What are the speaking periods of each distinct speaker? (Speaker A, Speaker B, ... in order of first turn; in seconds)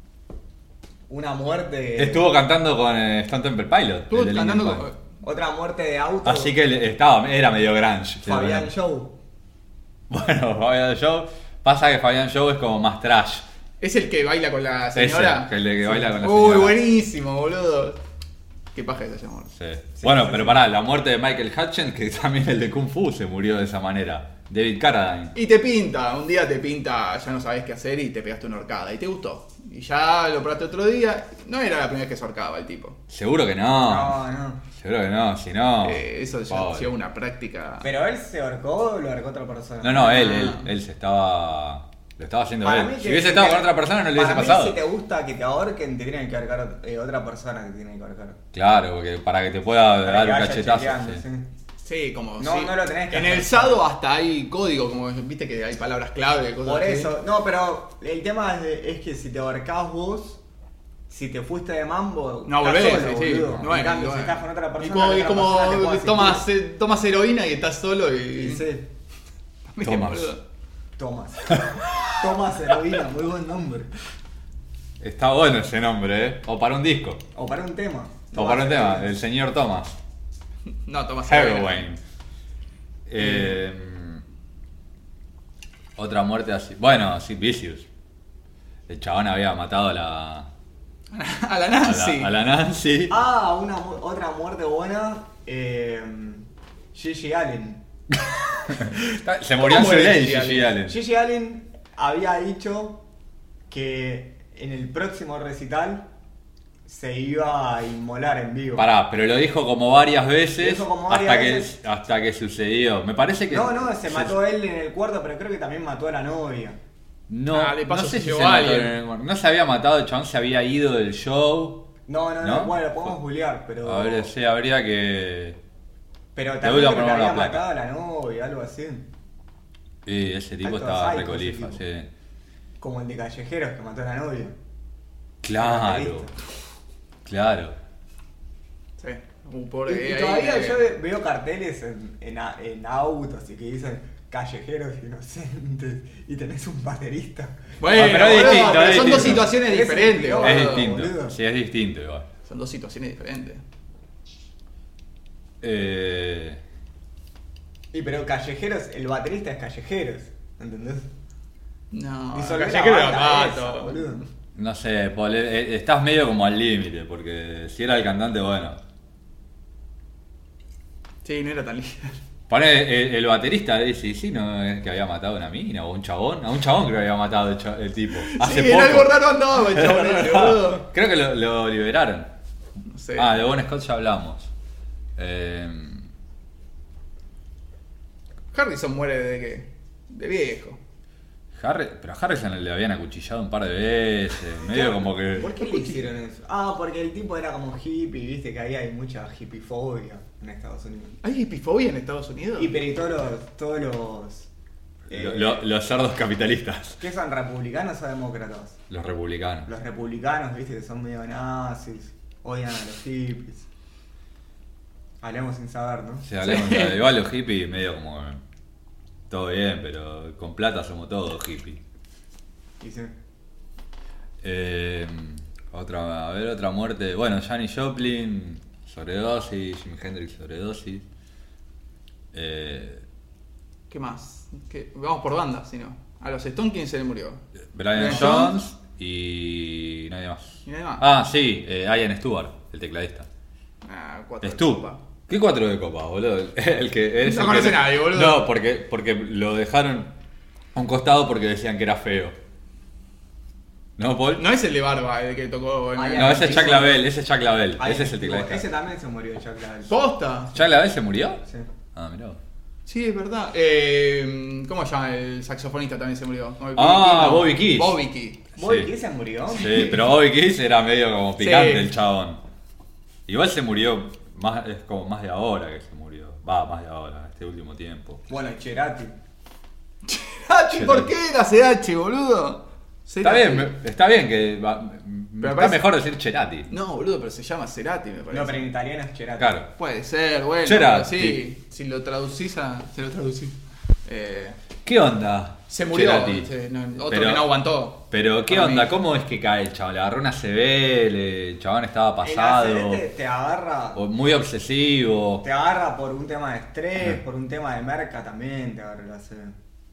Speaker A: 1.1-2.3, 5.2-6.5, 8.2-9.1, 20.0-20.6, 33.9-34.6, 37.8-40.5, 42.6-48.4, 50.0-51.5, 52.4-53.8, 56.6-60.4, 61.1-66.5, 68.3-68.9, 71.0-73.9, 77.3-79.2, 93.1-97.8, 100.9-103.0, 103.7-106.1, 106.8-108.9, 110.6-111.7, 113.5-116.8, 122.1-124.3, 126.3-129.1, 130.6-131.8, 132.8-134.6, 135.6-136.3, 139.9-151.4, 157.9-161.1, 162.3-164.2, 194.7-201.2, 202.6-204.5, 205.1-205.6, 207.0-208.8, 209.7-213.7, 215.2-216.3, 222.8-223.1, 255.9-257.0, 257.8-259.9, 268.6-269.9, 278.3-279.2, 288.3-289.6, 302.2-304.1, 305.4-309.6
Speaker B: 2.0-4.9, 6.2-8.7, 10.1-13.5, 15.0-16.8, 19.6-25.3, 33.1-34.2, 34.7-36.9, 39.8-44.8, 48.5-51.2, 69.8-70.3, 71.5-72.1, 75.0-77.2, 78.3-80.0, 81.3-82.0, 83.1-84.2, 86.0-87.9, 88.9-90.5, 91.8-93.2, 98.1-101.0, 108.8-114.4, 117.3-121.8, 122.4-123.1, 123.8-125.6, 126.6-127.7, 130.1-132.1, 135.4-136.3, 137.2-137.8, 147.9-149.5, 150.4-152.3, 155.6-156.6, 164.6-168.8, 172.5-182.3, 183.2-184.5, 185.2-186.1, 191.6-195.6, 205.1-207.0, 208.9-209.7, 216.2-218.4, 219.3-221.8, 224.4-231.1, 232.3-233.0, 237.7-243.3, 244.4-250.2, 250.8-252.4, 254.0-254.5, 256.1-258.7, 260.5-261.4, 261.9-262.4, 266.8-268.0, 268.6-268.9, 269.5-272.4, 273.3-278.2, 280.7-281.1, 283.2-286.7, 289.4-289.7, 290.6-291.4, 294.9-296.5, 297.1-297.5, 298.1-303.1, 303.9-305.4
Speaker C: 4.1-5.0, 13.8-18.0, 18.7-19.5, 25.4-33.0, 35.8-37.9, 40.0-40.7, 51.8-57.1, 62.5-68.7, 69.7-70.4, 80.8-81.9, 91.1-92.3, 99.6-100.7, 117.5-119.0, 139.0-140.8, 147.8-150.9, 152.4-153.6, 161.9-164.2, 171.2-172.2, 178.2-180.9, 182.9-183.5, 188.5-190.8, 195.4-196.1, 201.2-202.8, 216.4-217.0, 233.9-238.6, 240.7-241.1, 243.8-245.0, 247.2-248.5, 254.4-257.0, 259.9-260.6, 262.9-268.4, 269.6-270.0, 271.4-271.9, 280.1-283.7, 285.4-285.9, 286.7-288.7, 289.8-294.6, 295.7-298.9